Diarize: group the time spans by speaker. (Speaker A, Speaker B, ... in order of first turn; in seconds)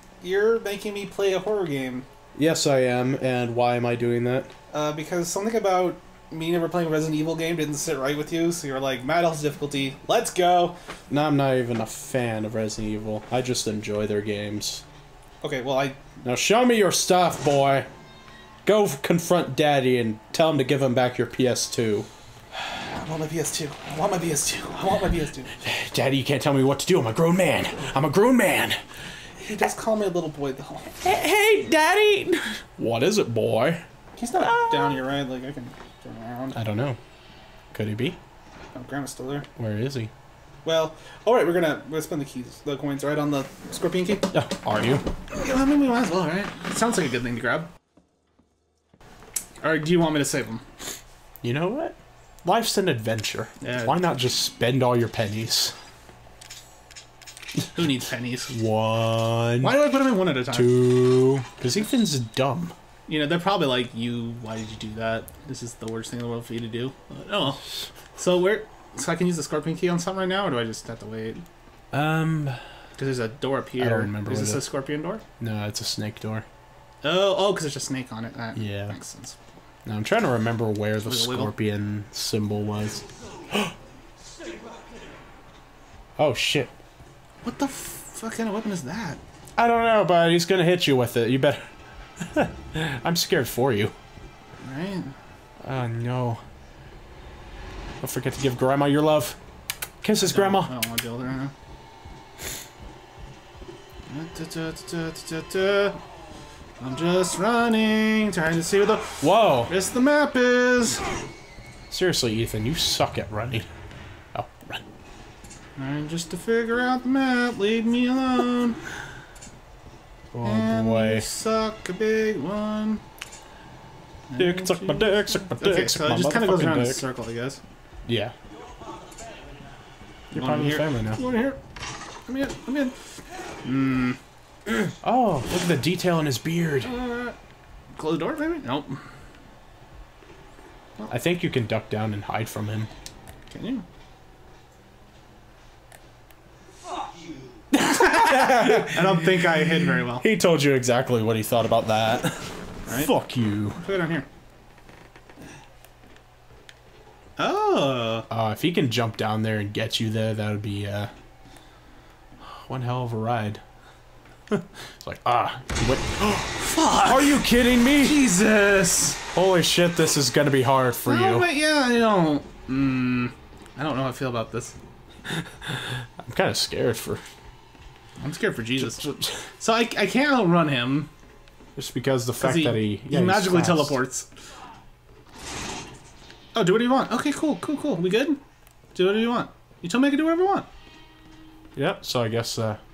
Speaker A: 0.2-2.0, 4.7-10.8, 15.4-16.0, 22.5-25.6, 29.4-30.9, 34.2-36.6, 38.7-39.5, 40.6-44.3, 45.3-47.7, 49.6-50.6, 53.6-53.9, 57.7-58.5, 59.6-60.9, 63.1-67.6, 68.2-71.4, 73.0-75.2, 77.0-79.4, 81.0-81.5, 87.4-89.2, 94.6-95.1, 100.2-101.5, 104.1-106.0, 106.8-111.0, 115.8-118.8, 120.4-123.0, 124.3-127.6, 130.3-131.6, 132.3-133.0, 133.6-134.2, 136.8-137.3, 138.0-139.0, 143.5-143.8, 148.0-150.2, 153.8-154.2, 157.4-158.3, 166.3-167.4, 168.0-169.2, 171.1-174.7, 178.2-179.0, 179.6-181.1, 182.4-184.3, 186.5-188.4, 188.9-190.7
Speaker B: 2.4-4.5, 11.1-14.8, 16.2-17.9, 18.6-22.1, 25.6-28.8, 31.0-35.0, 36.5-37.0, 37.7-38.2, 39.6-40.1, 44.3-45.0, 51.4-55.7, 58.5-59.8, 60.5-62.7, 71.9-72.6, 73.8-74.6, 75.4-76.5, 78.5-79.0, 79.8-83.7, 86.2-86.7, 89.6-93.9, 95.6-96.4, 98.0-99.4, 100.0-100.7, 109.2-109.7, 111.9-113.7, 114.3-114.8, 120.3-121.2, 124.4-127.0, 128.1-128.3, 130.3-131.2, 135.0-136.9, 141.1-142.9, 147.7-149.4, 150.2-153.8, 158.3-161.1, 162.4-163.6, 164.5-168.2, 169.3-171.5, 175.7-177.2, 178.8-179.4, 181.8-184.0, 191.7-192.8